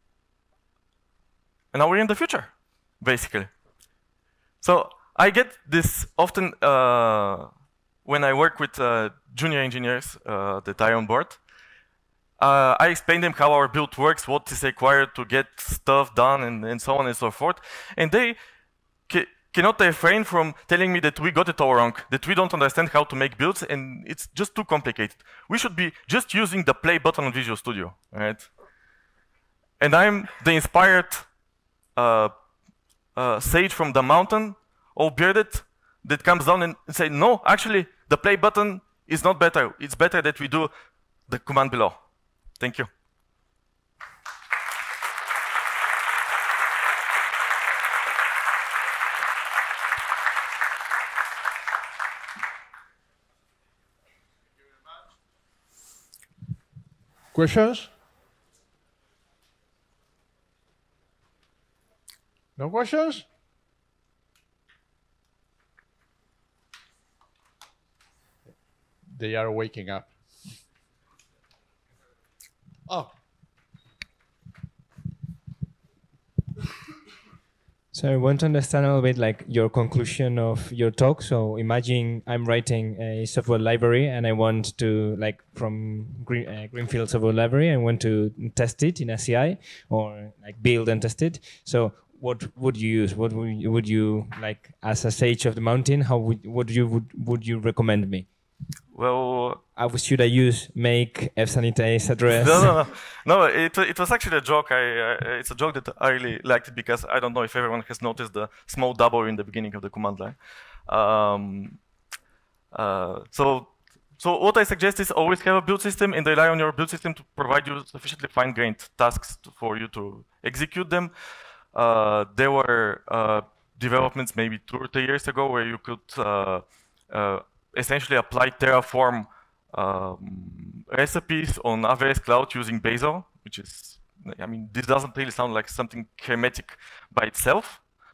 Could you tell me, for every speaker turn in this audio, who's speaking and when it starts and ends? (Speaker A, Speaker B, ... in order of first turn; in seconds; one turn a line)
Speaker A: 1.7-3.5
Speaker A: 4.6-7.5
Speaker A: 8.0-11.4
Speaker A: 12.4-18.4
Speaker A: 19.1-28.5
Speaker A: 29.8-31.3
Speaker A: 31.9-32.3
Speaker A: 33.1-40.7
Speaker A: 41.3-42.0
Speaker A: 42.6-42.9
Speaker B: 57.3-57.9
Speaker B: 62.6-63.2
Speaker B: 69.1-70.1
Speaker C: 77.9-98.3
Speaker A: 98.9-99.6
Speaker C: 99.8-102.8
Speaker A: 102.3-111.8
Speaker A: 112.7-121.1
Speaker A: 121.7-137.8